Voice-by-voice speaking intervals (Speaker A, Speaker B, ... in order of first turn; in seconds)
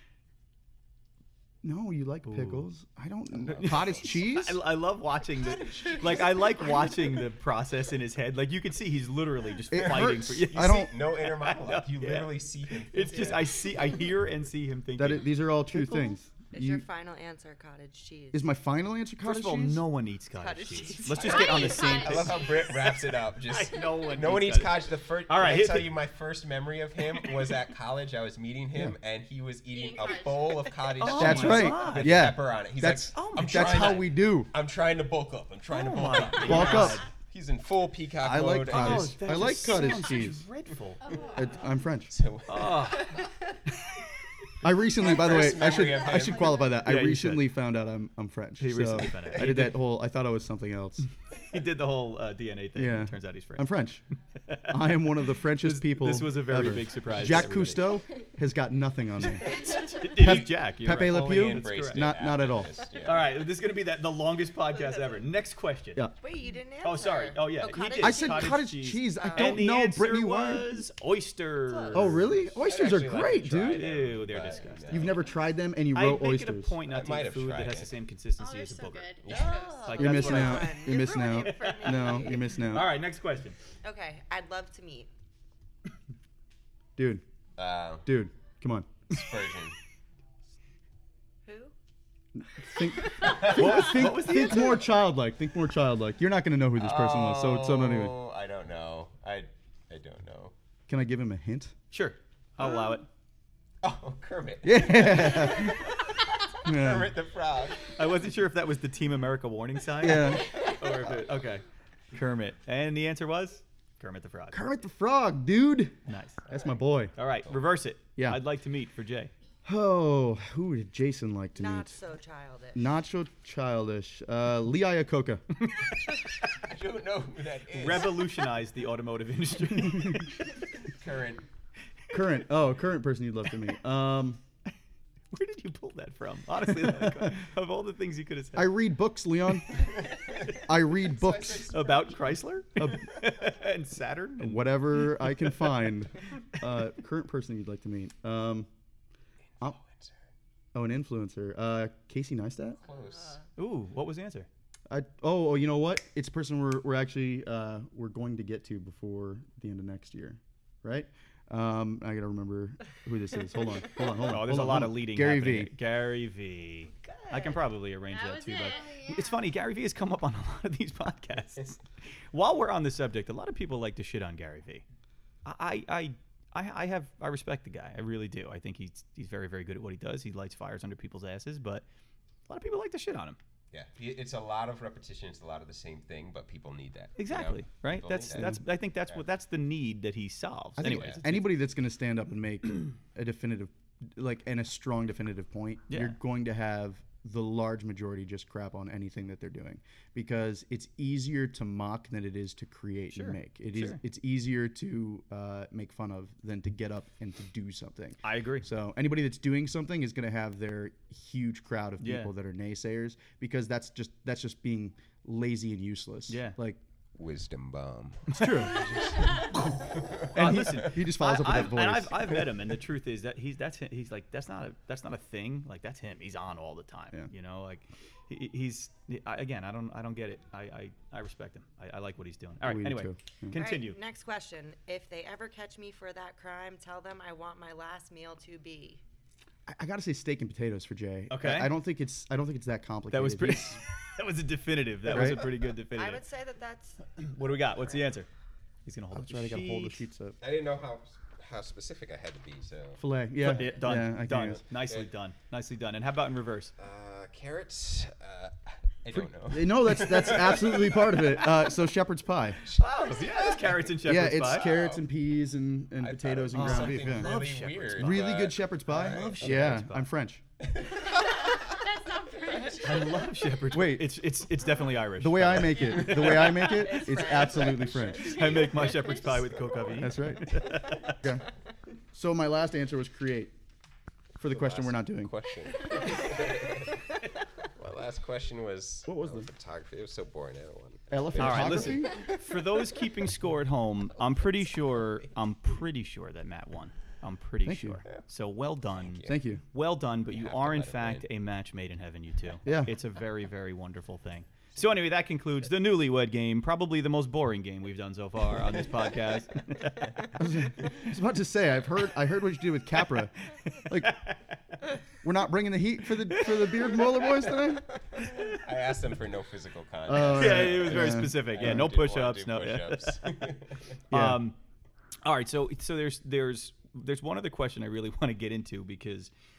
Speaker A: 1.6-4.6, 9.7-10.9, 15.0-16.8, 18.3-19.8, 31.1-34.5, 36.4-37.0, 38.2-40.4, 41.3-42.1, 44.6-51.1, 52.8-54.0, 54.7-62.8, 68.0-70.8, 71.9-73.9, 74.9-76.8, 80.0-82.9, 87.0-87.2, 88.0-88.9, 92.3-98.2, 100.9-101.7, 104.6-105.9, 106.6-107.1, 110.0-110.6, 114.5-117.1, 118.2-118.4, 119.6-122.0, 122.7-125.4, 129.8-130.2, 132.1-134.4, 136.8-137.2, 138.5-139.9, 140.5-141.7, 142.8-143.1, 144.4-148.7, 150.7-152.8, 154.9-165.7, 188.3-188.6, 190.8-216.8, 218.3-219.0, 220.3-222.3, 232.6-233.6, 239.7-243.8, 245.1-245.5, 249.1-250.4, 253.0-254.6, 259.1-262.6, 264.0-267.3, 267.9-270.4, 273.7-274.2, 275.1-278.4, 279.9-281.5, 282.1-283.5, 284.4-285.3, 289.1-289.5, 291.1-292.2, 297.6-298.0, 299.2-299.6, 302.6-302.9, 310.4-314.2, 315.1-317.9, 320.1-321.9, 324.1-324.4
Speaker B: 2.3-2.6, 3.4-16.1, 19.2-22.7, 23.4-26.0, 31.0-32.3, 33.1-34.1, 35.7-37.1, 38.7-41.1, 42.5-43.3, 46.8-47.5, 48.6-49.8, 51.4-53.7, 54.5-54.7, 55.6-57.9, 59.4-62.1, 63.0-66.1, 66.8-72.3, 73.6-75.2, 75.9-79.2, 79.8-83.6, 93.3-94.9, 101.9-103.1, 107.9-114.6, 116.1-116.4, 117.2-119.3, 127.7-130.6, 135.3-138.7, 141.7-145.8, 153.6-154.5, 164.2-174.8, 175.4-181.8, 182.5-183.4, 187.2-191.5, 195.9-196.2, 203.1-204.0, 208.2-208.7, 212.0-212.3, 216.3-216.6, 218.3-218.7, 220.3-234.0, 241.3-241.7, 243.1-246.2, 247.2-248.3, 248.8-250.0, 253.4-256.7, 262.7-264.7, 266.5-268.2, 268.9-270.1, 272.7-277.2, 278.1-281.2, 291.4-310.3, 313.6-314.5, 316.3-317.1, 320.3-323.5, 324.1-324.6, 325.2-329.3
Speaker C: 5.7-6.0, 10.0-13.6, 21.1-39.8, 41.0-41.3, 42.1-43.3, 45.0-46.8, 60.1-63.3, 72.5-75.3, 76.9-77.9, 79.2-79.8, 87.6-88.0, 89.1-89.7, 93.2-93.6, 96.8-100.5, 103.8-107.9, 126.5-128.3, 130.8-131.4, 140.0-142.1, 149.6-150.1, 152.8-153.4, 183.7-188.6, 190.8-191.2, 217.2-220.3, 250.4-253.0, 256.8-261.3, 262.6-263.9, 264.4-265.0, 266.0-269.7, 270.6-271.8, 284.5-287.1, 287.8-292.4, 299.0-299.4, 300.3-301.2, 318.2-323.9
Speaker D: 16.5-18.5, 20.4-22.3, 66.2-69.6, 71.7-72.1, 79.3-82.5, 83.8-85.1, 91.5-91.7, 93.0-93.4, 121.5-122.8, 167.1-167.5, 233.5-239.0, 245.9-247.1, 277.1-277.8
Speaker E: 21.6-22.2, 29.8-30.6, 79.4-79.7, 271.6-273.1, 278.4-278.6